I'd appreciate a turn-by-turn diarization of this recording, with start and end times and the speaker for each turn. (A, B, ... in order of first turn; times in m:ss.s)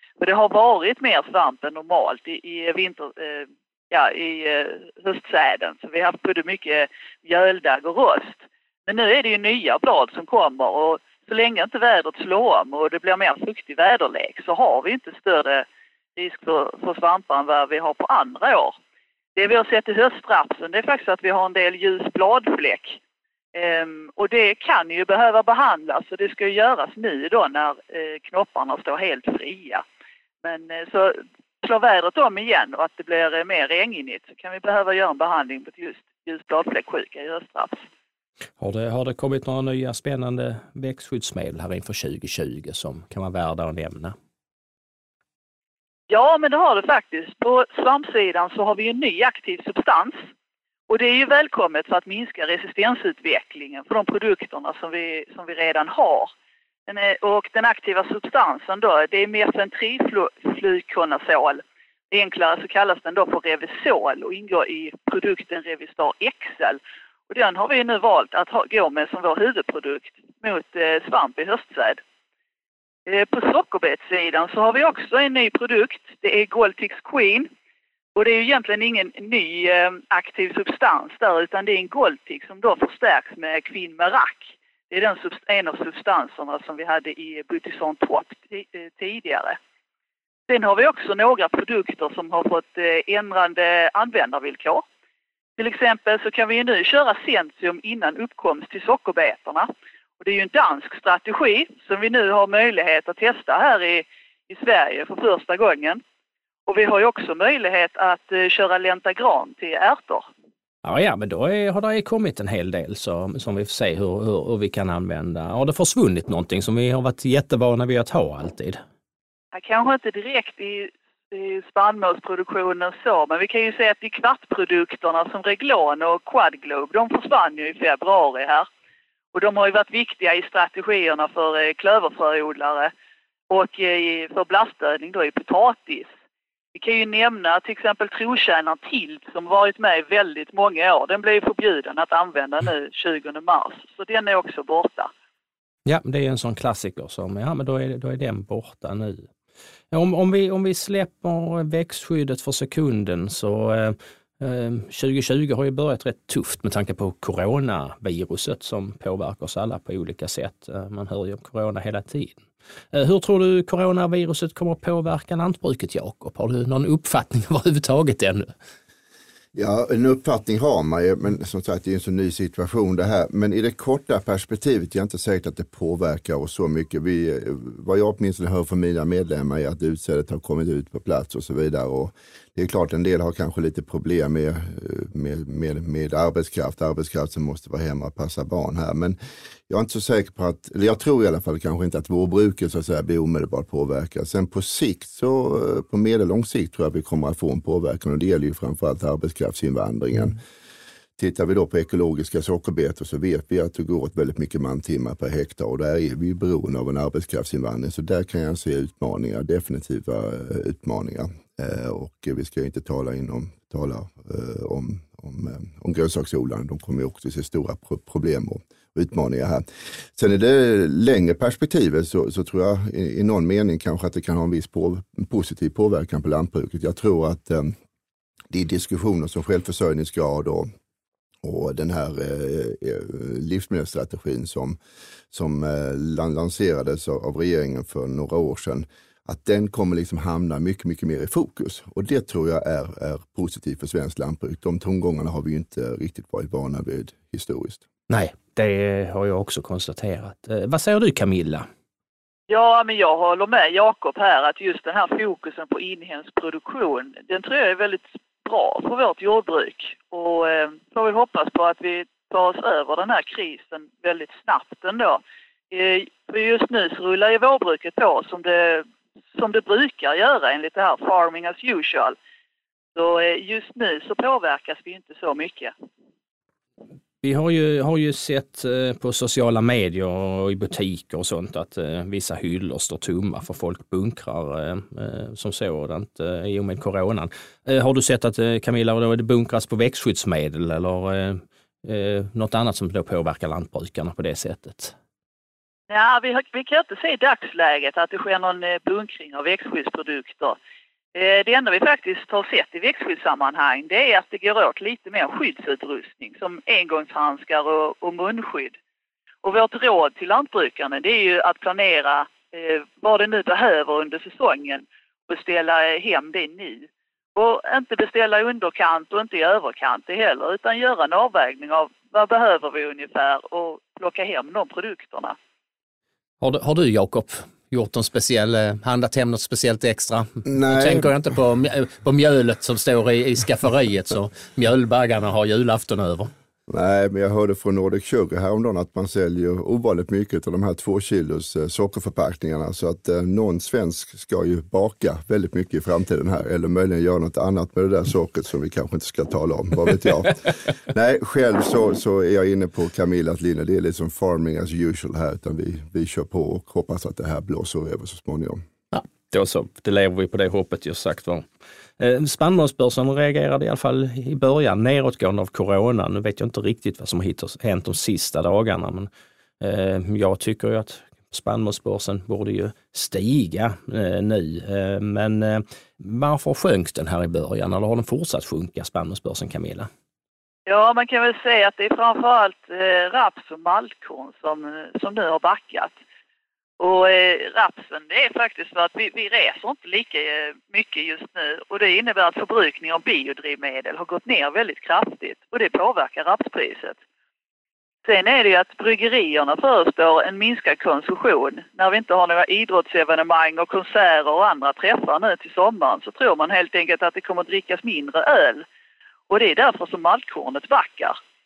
0:00.2-0:18.8 A
0:19.4-0:23.0 A
0:23.5-0:29.8 A
0:30.4-0:37.8 A
0:38.6-0:44.2 B
0:46.1-0:50.2 A
0:50.9-0:56.3 A
0:56.9-1:12.0 A
1:13.1-1:17.5 A
1:18.2-1:29.6 A
1:30.5-1:34.8 A
1:35.6-1:39.7 A
1:40.2-1:46.0 A
1:46.7-1:50.3 A
1:50.8-1:58.8 B
1:59.5-2:08.7 A
2:09.3-2:12.9 A
2:13.5-2:16.1 A
2:16.7-2:25.1 A
2:25.8-2:29.3 B
2:29.9-2:48.5 B
2:49.6-3:09.2 C
3:09.7-3:20.4 C
3:21.2-3:39.6 C
3:40.2-3:47.7 C
3:48.5-3:50.7 C
3:51.4-3:54.8 C
3:55.3-4:07.8 C
4:08.1-4:11.7 B
4:12.5-4:32.2 A
4:33.0-4:35.7 A
4:37.2-4:54.9 B
4:55.9-5:00.6 A
5:01.2-5:08.8 A
5:09.4-5:25.4 A
5:26.4-5:36.3 B
5:30.4-5:31.1 C
5:36.7-5:58.6 C
5:58.9-6:01.4 B
6:02.0-6:09.1 B
6:09.6-6:19.9 B
6:20.7-6:26.0 A
6:26.8-6:37.0 A
6:38.0-6:48.7 A
6:49.3-6:51.2 A